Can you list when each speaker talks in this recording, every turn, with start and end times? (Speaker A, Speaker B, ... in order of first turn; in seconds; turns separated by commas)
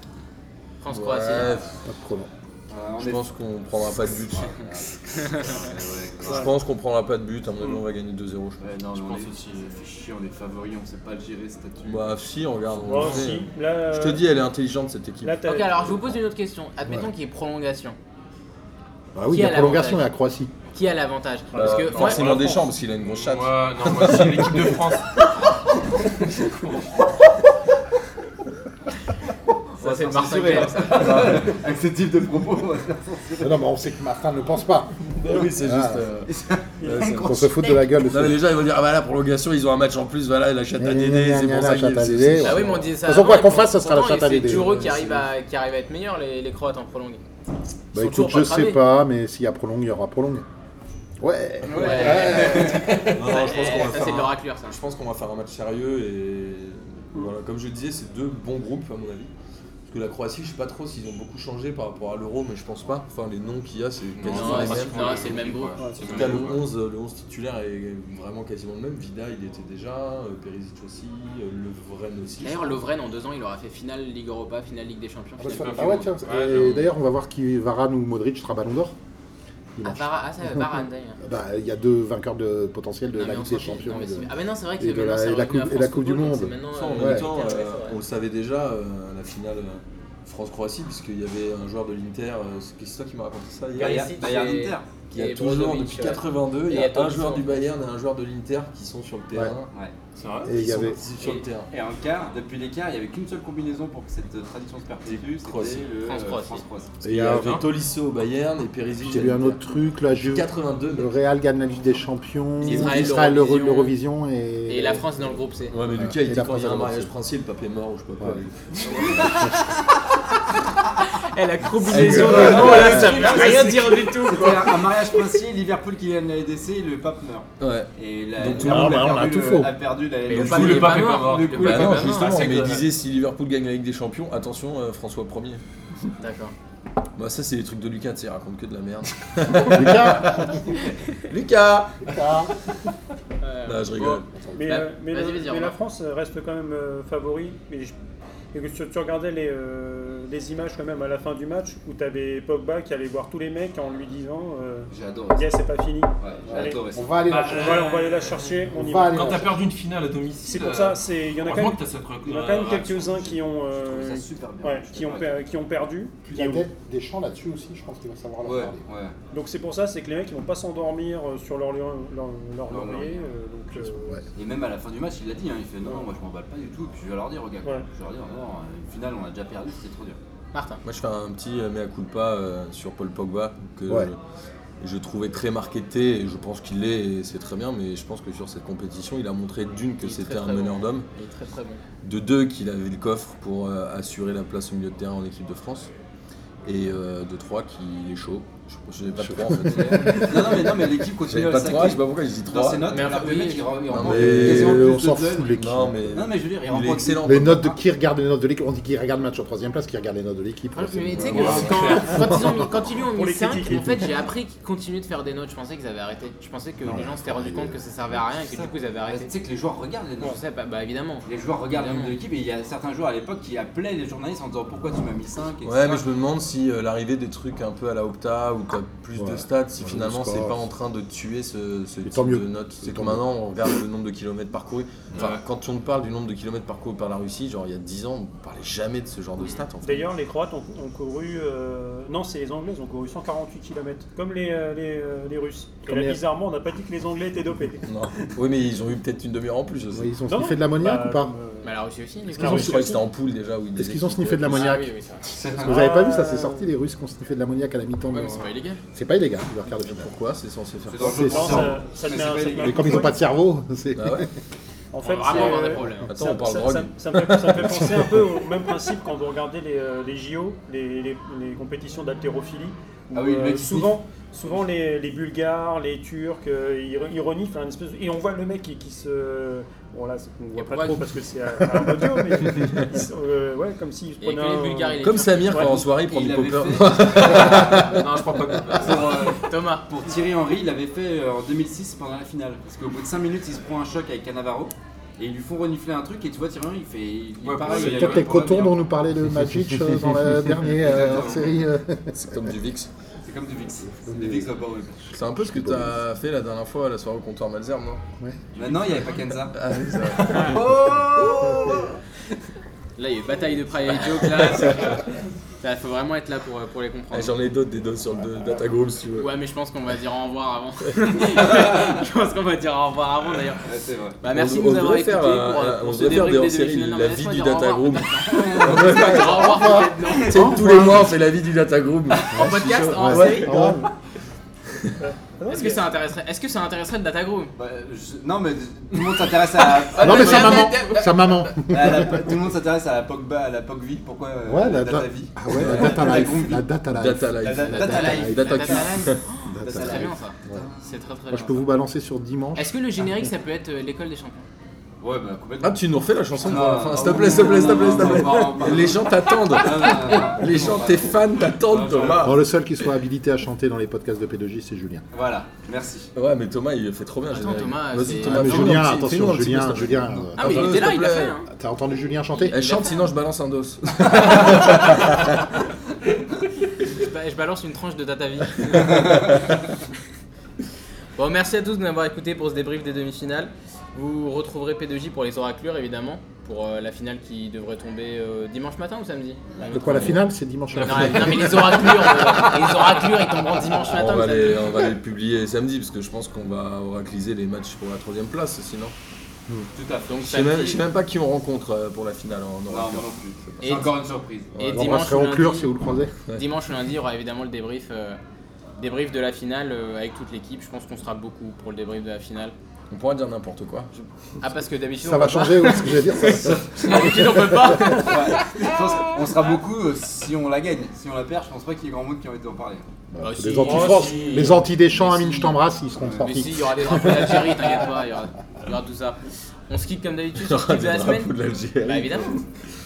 Speaker A: 0.8-1.6, Speaker B: 0.9-1.8, Speaker C: 1.8-2.3, Speaker D: 2.7-3.3, Speaker B: 3.0-4.6, Speaker D: 4.3-6.5, Speaker A: 5.2-5.5, Speaker B: 6.2-8.7, Speaker D: 8.6-12.1, Speaker E: 8.9-9.8, Speaker B: 11.8-16.0, Speaker F: 12.8-14.2, Speaker F: 15.2-15.8, Speaker A: 15.5-18.0, Speaker C: 19.1-20.5, Speaker A: 19.3-20.1, Speaker A: 20.7-22.4, Speaker E: 21.6-25.2, Speaker B: 21.6-24.7, Speaker E: 26.2-26.9, Speaker D: 29.8-33.6, Speaker A: 29.8-31.4, Speaker B: 30.9-31.5, Speaker C: 33.4-35.0, Speaker B: 35.1-37.5, Speaker C: 35.6-36.0, Speaker D: 36.3-37.9, Speaker C: 37.0-38.4, Speaker B: 38.0-42.9, Speaker C: 40.8-44.9, Speaker A: 42.4-47.2, Speaker B: 44.5-45.2, Speaker C: 47.9-50.5, Speaker A: 48.0-48.8, Speaker C: 51.2-53.2, Speaker D: 51.6-53.1, Speaker A: 51.7-54.8, Speaker B: 52.4-59.3, Speaker B: 59.9-65.5, Speaker E: 64.2-66.6, Speaker A: 64.2-66.5, Speaker F: 65.8-66.4, Speaker B: 66.0-72.8, Speaker A: 72.4-76.8, Speaker C: 75.4-79.0, Speaker E: 75.5-76.9, Speaker C: 79.8-87.2, Speaker A: 79.8-81.2, Speaker A: 83.1-88.0, Speaker B: 86.7-94.2, Speaker A: 93.8-97.5, Speaker D: 93.8-94.9, Speaker B: 95.1-99.7, Speaker E: 100.2-100.5, Speaker C: 100.4-101.0, Speaker B: 100.5-101.7, Speaker D: 101.2-107.0, Speaker B: 105.1-105.9, Speaker A: 106.0-106.6, Speaker C: 107.0-107.5, Speaker B: 107.0-109.6, Speaker E: 107.3-107.7, Speaker C: 109.0-115.4, Speaker B: 110.2-111.1, Speaker A: 112.6-114.0, Speaker B: 112.7-113.0, Speaker A: 114.7-115.8, Speaker B: 115.7-119.5, Speaker C: 116.0-117.1, Speaker C: 118.2-118.5, Speaker A: 118.9-119.8, Speaker C: 119.2-119.7, Speaker A: 121.1-125.2, Speaker B: 121.9-123.4, Speaker D: 122.0-132.8, Speaker C: 122.1-123.2, Speaker B: 127.6-129.0, Speaker C: 128.6-129.7, Speaker A: 130.3-132.6, Speaker E: 130.3-132.8, Speaker B: 130.3-135.6, Speaker A: 136.2-136.5, Speaker B: 137.2-140.6, Speaker C: 139.7-140.7, Speaker B: 141.3-142.1, Speaker C: 142.0-142.5, Speaker A: 143.4-145.8, Speaker B: 143.7-144.3, Speaker C: 144.3-144.7, Speaker F: 144.5-147.9, Speaker F: 148.5-156.8, Speaker D: 154.9-155.5, Speaker D: 156.2-157.1, Speaker C: 156.5-157.9, Speaker E: 157.3-163.3, Speaker F: 157.5-159.2, Speaker C: 158.7-159.6, Speaker F: 160.4-166.7, Speaker D: 163.2-165.4, Speaker C: 166.2-168.8, Speaker D: 168.4-169.2, Speaker F: 169.3-174.2, Speaker D: 172.7-173.3, Speaker C: 173.8-174.2, Speaker D: 174.3-180.2, Speaker A: 180.5-180.8, Speaker B: 180.8-184.2, Speaker B: 184.8-191.1, Speaker A: 190.0-191.8, Speaker B: 192.0-195.9, Speaker B: 196.7-203.1, Speaker C: 199.2-200.5, Speaker D: 199.6-205.6, Speaker A: 202.9-204.1, Speaker B: 203.9-205.0, Speaker C: 204.0-206.3, Speaker B: 205.6-207.7, Speaker D: 206.1-207.6, Speaker C: 207.2-212.4, Speaker A: 210.7-219.3, Speaker B: 211.2-211.7, Speaker E: 211.3-212.3, Speaker F: 211.9-214.1, Speaker C: 216.8-217.8, Speaker D: 218.4-220.4, Speaker A: 220.2-222.2, Speaker D: 221.3-226.1, Speaker B: 225.6-240.1, Speaker C: 229.2-230.6, Speaker C: 232.0-233.2, Speaker E: 235.1-235.4, Speaker F: 239.8-248.3, Speaker C: 245.9-246.2, Speaker B: 247.9-250.2, Speaker C: 249.9-251.3, Speaker F: 250.3-251.8, Speaker A: 251.6-252.9, Speaker B: 252.4-254.8, Speaker F: 252.4-253.0, Speaker C: 252.4-252.8, Speaker C: 253.8-254.9, Speaker A: 254.5-255.5, Speaker D: 255.3-255.9, Speaker F: 255.6-256.7, Speaker C: 255.6-260.1, Speaker A: 258.1-258.8, Speaker B: 259.8-261.6, Speaker D: 260.9-263.2, Speaker C: 261.0-261.8, Speaker F: 261.2-263.2, Speaker C: 262.6-264.3, Speaker B: 264.0-264.3, Speaker F: 264.9-285.9, Speaker A: 265.0-266.1, Speaker B: 266.0-268.1, Speaker D: 273.1-274.6, Speaker A: 280.6-281.1, Speaker B: 282.5-282.9, Speaker A: 284.2-285.8, Speaker B: 285.0-288.0, Speaker D: 285.6-288.1, Speaker E: 287.5-289.4, Speaker D: 288.7-298.9, Speaker A: 289.3-289.9, Speaker E: 297.4-298.6, Speaker C: 297.7-302.6, Speaker D: 300.8-301.6, Speaker B: 302.1-302.9, Speaker D: 303.2-305.1, Speaker C: 303.9-304.5, Speaker B: 305.1-308.0, Speaker C: 305.4-306.0, Speaker D: 308.6-309.6, Speaker B: 309.5-311.0, Speaker D: 310.2-311.9, Speaker A: 313.0-315.1, Speaker B: 314.3-314.9, Speaker A: 315.6-317.4, Speaker B: 317.1-319.3, Speaker A: 319.1-331.0, Speaker D: 323.6-324.2, Speaker B: 324.3-333.9, Speaker D: 328.6-329.2, Speaker C: 329.2-331.1, Speaker A: 332.2-333.6, Speaker C: 332.4-333.9, Speaker F: 335.0-335.8, Speaker A: 335.5-337.5, Speaker D: 337.6-341.1, Speaker A: 340.0-341.0, Speaker C: 340.0-342.4, Speaker D: 341.7-346.7, Speaker C: 344.5-348.4, Speaker B: 345.5-346.3, Speaker B: 346.9-349.2, Speaker D: 347.4-349.1, Speaker A: 347.7-351.7, Speaker C: 349.5-350.6, Speaker D: 349.6-350.8, Speaker C: 351.3-352.7, Speaker A: 352.6-354.4, Speaker D: 355.0-355.8, Speaker B: 355.6-362.4, Speaker D: 356.4-362.4, Speaker C: 362.2-365.0, Speaker D: 365.1-366.1, Speaker B: 366.1-371.4, Speaker A: 367.3-368.9, Speaker C: 368.2-370.8, Speaker A: 370.4-371.5, Speaker C: 371.5-372.6, Speaker A: 372.3-373.0, Speaker B: 372.5-375.4, Speaker A: 376.8-379.4, Speaker A: 381.2-394.9, Speaker C: 389.7-392.1, Speaker B: 390.8-393.1, Speaker B: 393.8-398.9, Speaker D: 399.8-400.2, Speaker A: 400.1-400.8, Speaker B: 400.2-403.8, Speaker D: 402.7-404.5, Speaker A: 403.6-403.9, Speaker B: 404.6-404.9, Speaker A: 404.6-405.7, Speaker C: 404.6-406.2, Speaker A: 406.3-408.2, Speaker A: 408.8-412.5, Speaker B: 412.9-413.9, Speaker A: 414.4-418.7, Speaker C: 415.0-418.0, Speaker D: 418.0-422.9, Speaker C: 423.1-427.6, Speaker A: 423.2-425.6, Speaker F: 423.6-424.5, Speaker D: 426.0-426.3, Speaker A: 426.2-432.4, Speaker B: 430.4-432.4